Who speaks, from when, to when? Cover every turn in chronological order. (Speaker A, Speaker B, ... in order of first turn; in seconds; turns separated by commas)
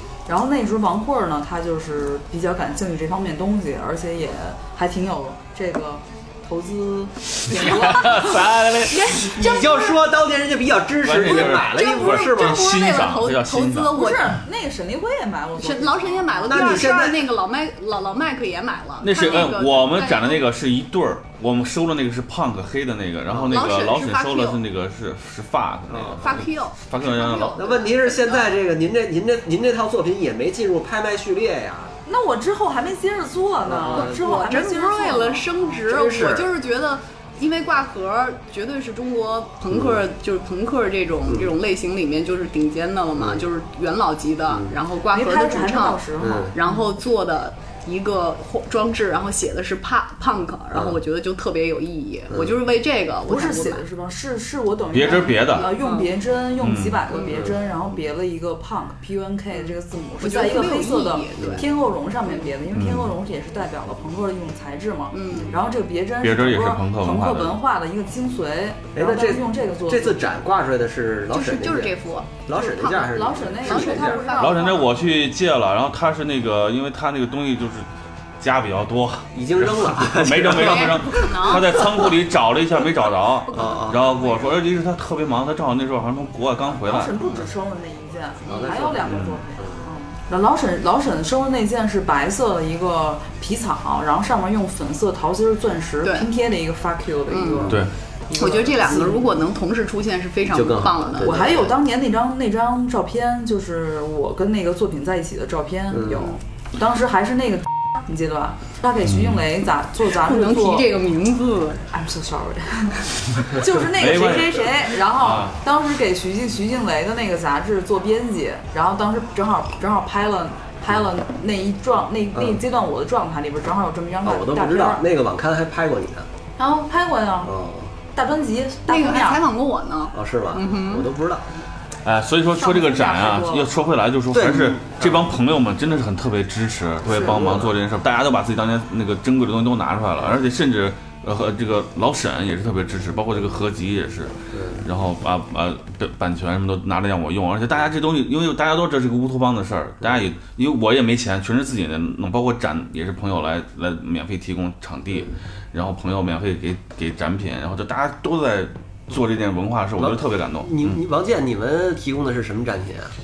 Speaker A: 0.3-8.4, Speaker B: 7.5-9.2, Speaker C: 8.9-10.0, Speaker D: 9.1-12.7, Speaker B: 11.0-13.9, Speaker C: 11.2-14.3, Speaker A: 13.9-16.9, Speaker C: 15.6-20.4, Speaker D: 16.5-17.3, Speaker B: 19.0-27.6, Speaker D: 23.3-23.6, Speaker C: 23.5-24.6, Speaker D: 25.9-26.4, Speaker C: 26.2-28.5, Speaker D: 27.6-31.9, Speaker A: 32.0-35.8, Speaker D: 33.6-34.4, Speaker C: 33.9-53.9, Speaker D: 35.9-36.5, Speaker D: 39.7-40.0, Speaker D: 41.3-41.6, Speaker D: 43.2-43.5, Speaker D: 44.5-44.8, Speaker A: 45.1-46.9, Speaker D: 46.2-46.5, Speaker D: 50.7-51.0, Speaker D: 52.3-52.6, Speaker A: 53.3-70.2, Speaker B: 54.9-55.7, Speaker C: 55.5-56.1, Speaker B: 56.6-57.0, Speaker C: 57.1-57.4, Speaker D: 57.2-57.5, Speaker C: 59.5-61.7, Speaker D: 61.4-61.6, Speaker B: 62.7-63.1, Speaker C: 65.1-65.6, Speaker B: 66.2-67.6, Speaker D: 69.0-74.3, Speaker C: 71.3-74.9, Speaker A: 73.1-74.9, Speaker B: 74.4-77.9, Speaker B: 78.4-87.1, Speaker D: 79.3-81.8, Speaker C: 80.5-82.1, Speaker C: 83.5-84.7, Speaker D: 83.5-84.0, Speaker A: 86.7-99.2, Speaker C: 88.5-88.8, Speaker D: 88.5-89.9, Speaker B: 89.1-89.4, Speaker C: 96.0-96.3, Speaker C: 97.3-97.8, Speaker C: 98.3-101.3, Speaker D: 100.5-101.7, Speaker A: 101.2-110.9, Speaker D: 105.9-106.3, Speaker B: 109.1-109.4, Speaker C: 110.1-111.8, Speaker A: 111.9-125.1, Speaker B: 113.8-115.6, Speaker D: 122.3-122.6, Speaker D: 124.2-126.3, Speaker A: 126.6-127.5, Speaker D: 127.4-127.9, Speaker A: 128.1-129.4, Speaker C: 128.9-131.1, Speaker D: 130.1-131.4, Speaker B: 132.1-161.0, Speaker A: 132.5-133.7, Speaker D: 134.3-135.3, Speaker A: 137.1-137.4, Speaker D: 137.1-137.7, Speaker D: 144.5-144.9, Speaker D: 150.0-150.3, Speaker D: 155.1-155.4, Speaker D: 160.0-163.1